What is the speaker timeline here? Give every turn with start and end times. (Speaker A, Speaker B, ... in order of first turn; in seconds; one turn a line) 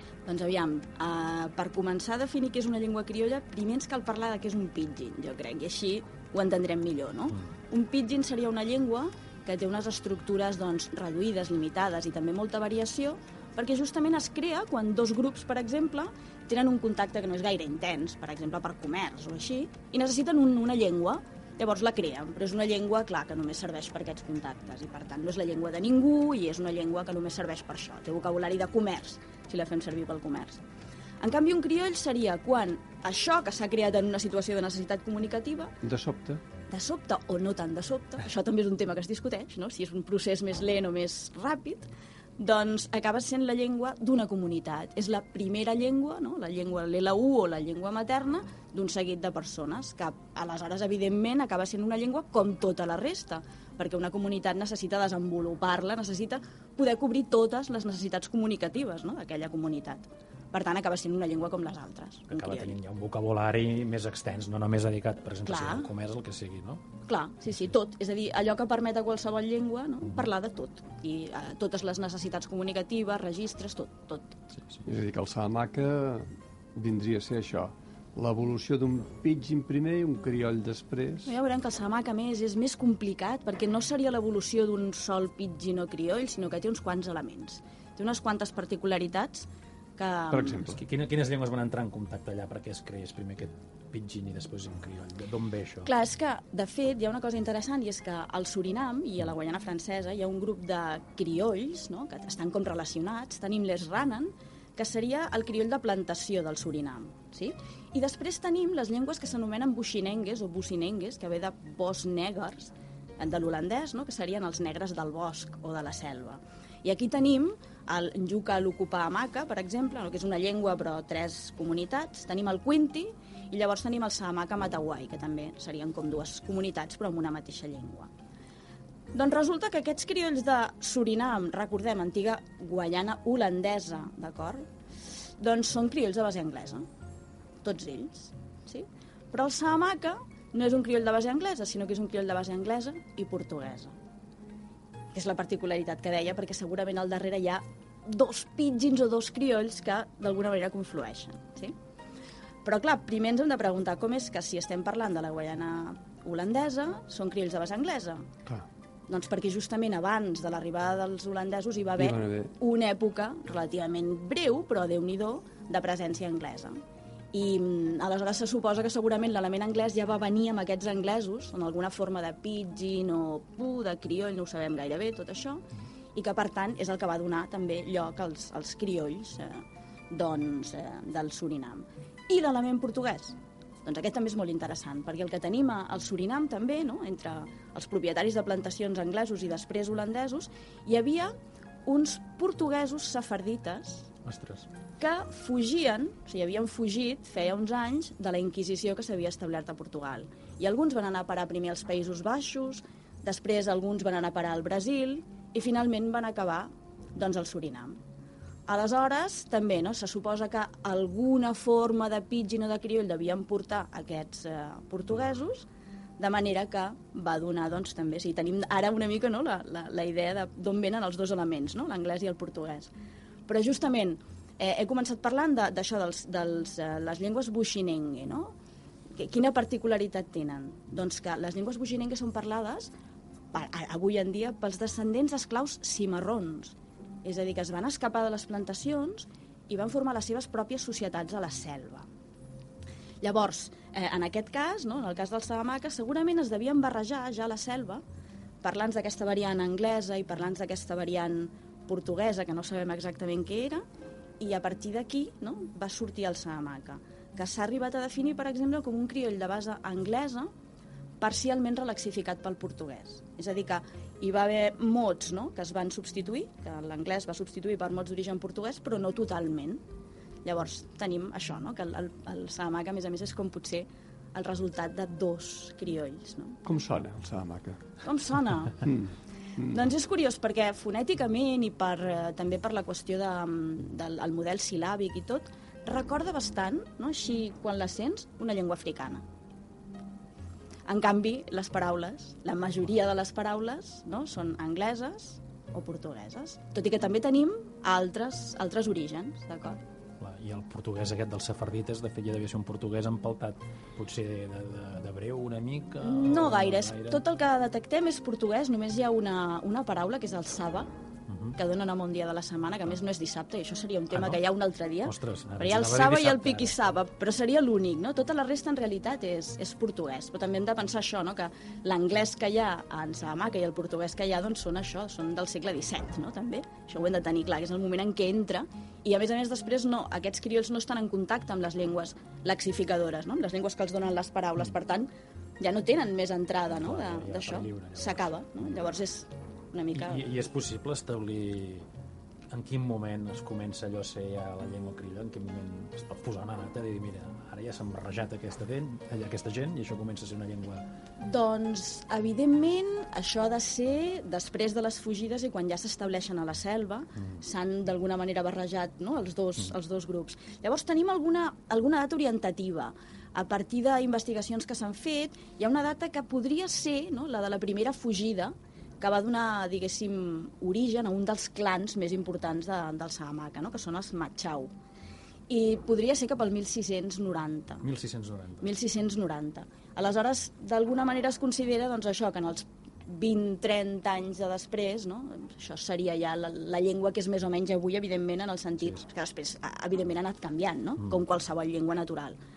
Speaker A: 0.3-30.6
Speaker A: 31.2-35.7
Speaker B: 35.8-36.4
Speaker A: 36.7-62.8
Speaker C: 62.3-66.8
Speaker A: 65.5-65.9
Speaker A: 67.1-74.4
Speaker B: 74.9-81.3
Speaker A: 81.2-90.6
Speaker B: 90.3-90.8
Speaker C: 90.6-95.9
Speaker A: 95.8-128.1
Speaker A: 129.1-134.7
Speaker A: 135.4-136.9
Speaker A: 137.6-143.9
Speaker A: 145.1-151.8
Speaker A: 152.7-158.3
Speaker A: 159.1-166.8
Speaker B: 162.0-162.5
Speaker A: 167.3-191.3
Speaker A: 191.9-194.1
Speaker C: 194.2-194.7
Speaker A: 195.0-208.0
Speaker A: 208.7-215.7
Speaker A: 216.2-222.9
Speaker A: 223.5-228.5
Speaker A: 229.2-232.9
Speaker A: 233.5-242.1
Speaker A: 243.2-248.0
Speaker A: 248.6-253.8
Speaker A: 254.4-260.5
Speaker A: 261.2-269.8
Speaker A: 270.4-276.6
Speaker B: 276.6-277.8
Speaker A: 278.0-278.9
Speaker B: 278.8-279.8
Speaker A: 279.7-289.2
Speaker A: 290.9-299.8
Speaker C: 300.2-307.2
Speaker A: 306.0-310.9
Speaker C: 311.3-311.6
Speaker A: 311.6-340.3
Speaker C: 314.1-314.4
Speaker C: 315.0-316.7
Speaker C: 336.8-338.9
Speaker C: 339.9-341.9
Speaker C: 342.5-350.9
Speaker A: 351.2-374.7
Speaker A: 375.5-377.9
Speaker C: 377.8-378.7
Speaker A: 378.6-392.4